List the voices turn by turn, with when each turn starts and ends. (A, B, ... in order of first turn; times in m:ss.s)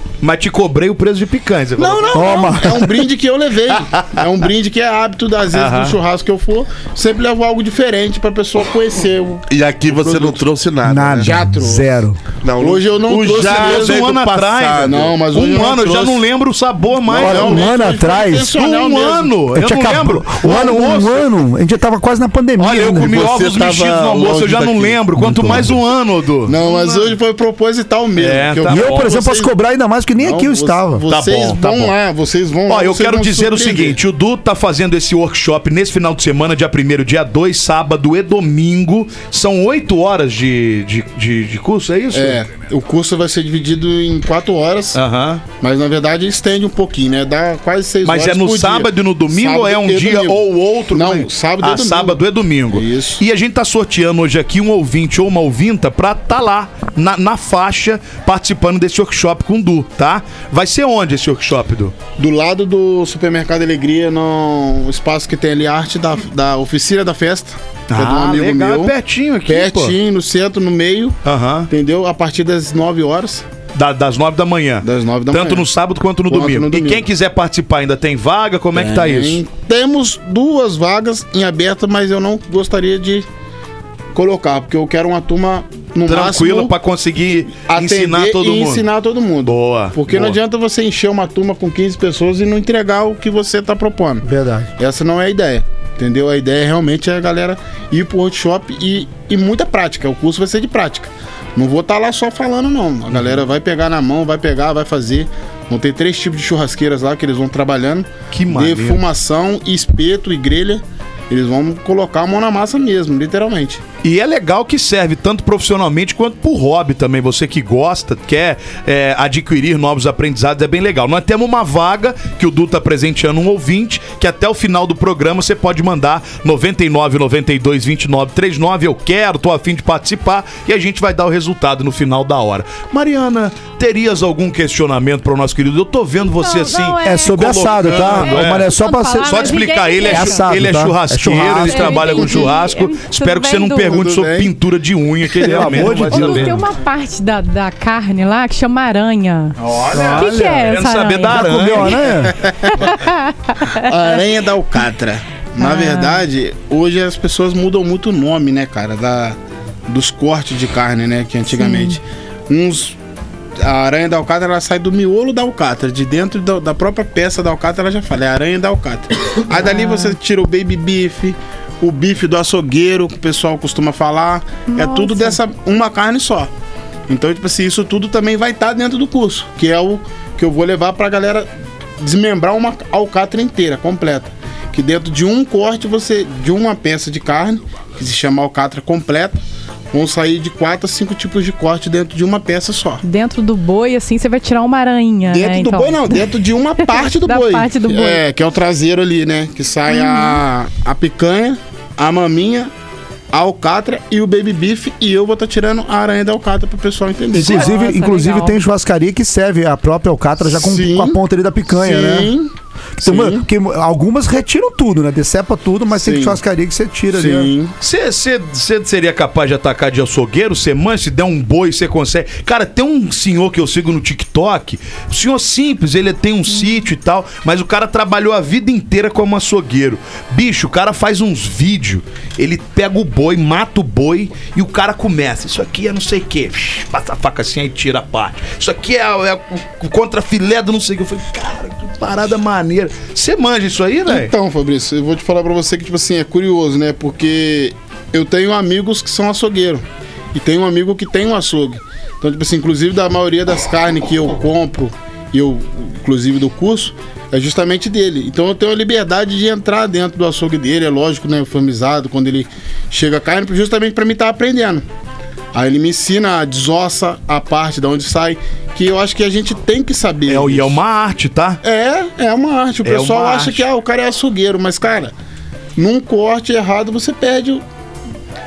0:00.2-0:02.5 A
0:01.8-0:10.4 B
0:02.1-0:03.0 C
0:05.5-0:06.0 A
0:09.5-0:11.4 D
0:10.8-0:12.2 C
0:11.2-0:12.0 B
0:12.4-0:15.2 D
0:12.6-0:14.0 B
0:13.3-0:17.7 A
0:14.8-0:16.2 B
0:17.0-0:18.5 C
0:17.2-0:19.4 B
0:18.5-0:21.3 A
0:19.5-0:23.2 C
0:20.6-0:21.0 B
0:22.6-0:26.6 A
0:22.9-0:25.0 D
0:25.2-0:25.7 C
0:26.5-0:29.6 B
0:26.6-0:27.1 E
0:28.2-0:29.2 A
0:28.7-0:31.0 C
0:30.2-0:34.0 B
0:31.1-0:31.9 A
0:32.7-0:42.4 A
0:42.1-0:45.0 B
0:44.9-0:45.4 A
0:45.6-0:53.2 B
0:48.0-1:02.0 A
1:02.2-1:09.0 B
1:07.9-1:10.0 A
1:09.5-1:11.2 B
1:11.2-1:11.7 A
1:11.7-1:13.4 B
1:13.7-1:19.4 A
1:14.8-1:15.7 B
1:16.3-1:17.1 B
1:18.7-1:23.3 B
1:24.1-1:26.7 B
1:26.1-1:28.9 A
1:27.7-1:34.2 B
1:29.4-1:30.4 A
1:34.2-1:34.7 C
1:34.8-1:53.8 B
1:48.3-1:49.0 A
1:54.0-2:18.7 A
2:16.3-2:20.5 E
2:17.0-2:22.6 C
2:19.2-2:26.6 A
2:21.4-2:24.0 E
2:23.8-2:24.5 B
2:25.4-2:26.6 C
2:25.4-2:25.8 B
2:25.8-2:29.6 E
2:29.6-2:32.1 A
2:29.9-2:30.7 C
2:30.2-2:31.9 E
2:31.3-2:32.4 C
2:32.2-2:33.0 B
2:32.9-2:33.7 E
2:33.7-2:43.0 B
2:35.6-2:36.2 E
2:41.6-2:41.9 E
2:43.6-2:56.5 B
2:49.7-2:50.1 E
2:54.7-2:55.4 E
2:57.1-3:01.5 B
3:02.0-3:09.4 B
3:09.9-3:13.0 B
3:13.0-3:16.3 E
3:15.2-3:22.7 B
3:16.8-3:18.2 E
3:19.9-3:20.4 E
3:23.3-3:27.8 B
3:27.3-3:32.3 C
3:27.5-3:28.6 E
3:30.5-3:32.5 B
3:33.0-3:37.5 C
3:33.0-3:33.5 B
3:35.9-3:36.4 B
3:37.1-3:37.7 B
3:37.8-4:04.3 A
4:04.1-4:24.8 B
4:25.5-4:30.8 B
4:30.3-4:31.6 A
4:31.6-4:35.1 B
4:32.8-4:33.6 A
4:35.8-4:37.6 B